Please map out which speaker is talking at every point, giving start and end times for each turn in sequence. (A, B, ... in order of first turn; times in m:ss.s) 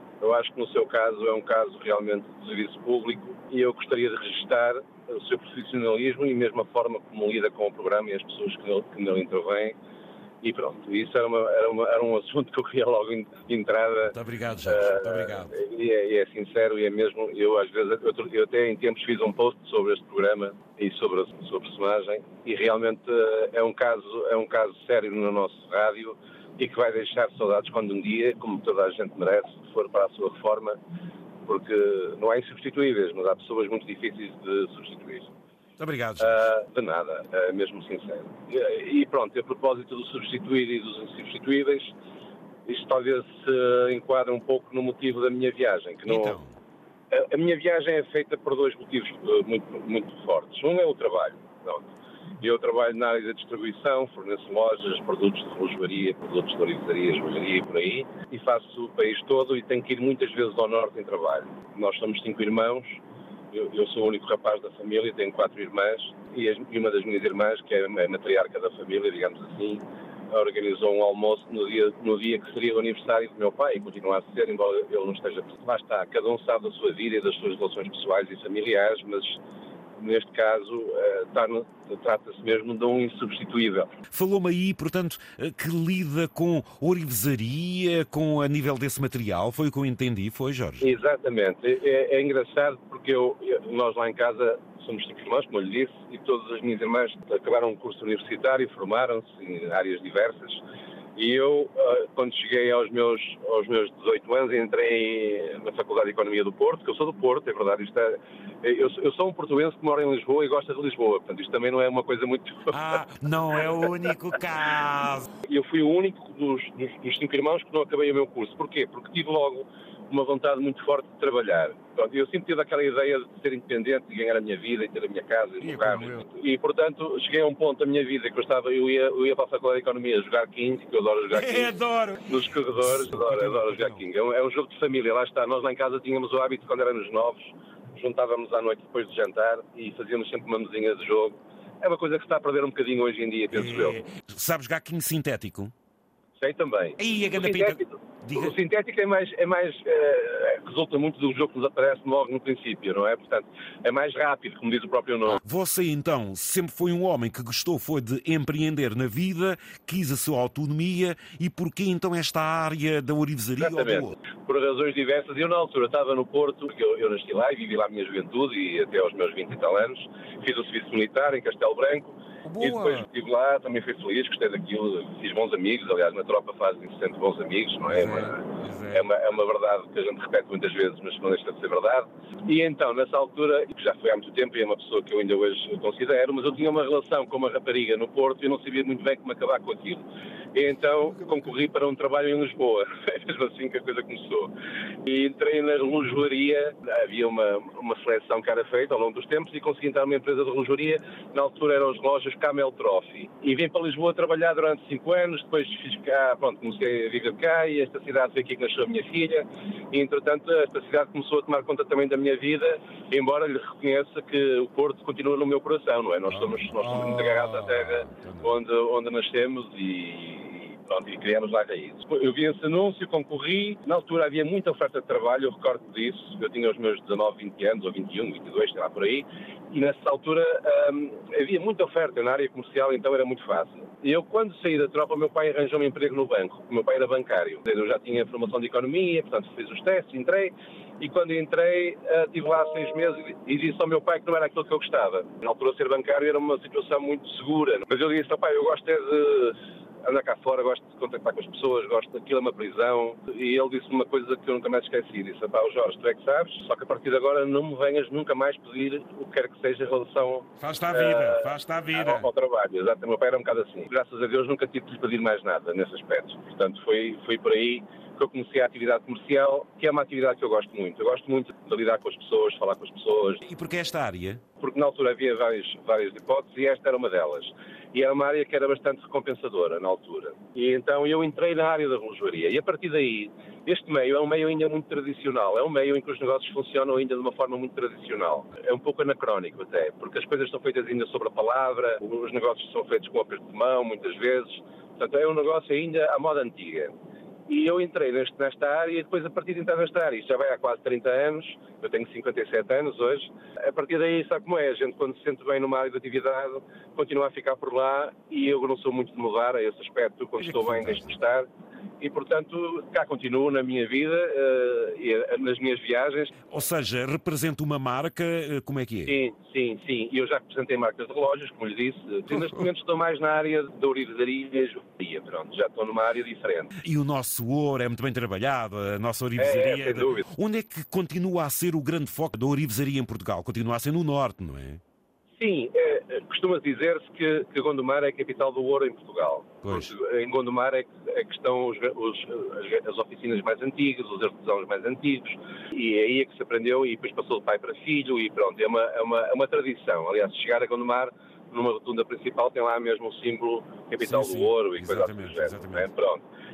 0:00.2-0:09.8 A
0:10.4-0:30.8 A
0:14.1-0:15.5 B
0:31.5-0:35.3 A
0:35.8-0:36.5 B
0:36.2-0:42.0 A
0:42.7-0:46.4 A
0:46.1-0:46.6 B
0:47.1-1:03.0 A
1:03.5-1:19.4 A
1:20.0-1:23.9 A
1:24.1-1:30.9 B
1:30.8-1:40.6 A
1:41.2-1:53.0 A
1:52.7-1:55.3 B
1:55.4-2:24.0 A
2:05.8-2:06.2 B
2:11.3-2:14.0 B
2:23.5-2:25.7 B
2:26.4-2:35.4 A
2:27.0-2:28.5 B
2:35.3-2:44.2 B
2:43.6-3:10.0 A
2:52.4-2:53.1 B
2:57.9-2:59.1 B
3:10.5-3:14.5 A
3:15.0-4:33.4 A
3:36.3-3:38.5 B
4:20.6-4:22.3 B
4:33.4-4:34.4 B
4:34.6-4:56.9 A
4:57.5-5:11.5 A
5:10.4-5:11.2 B
5:12.0-5:16.3 A
5:16.5-5:19.2 B
5:19.1-5:26.8 A
5:26.8-5:34.8 B
5:29.4-5:30.3 A
5:35.4-5:56.2 A
5:39.6-5:39.9 B
5:54.0-5:55.9 B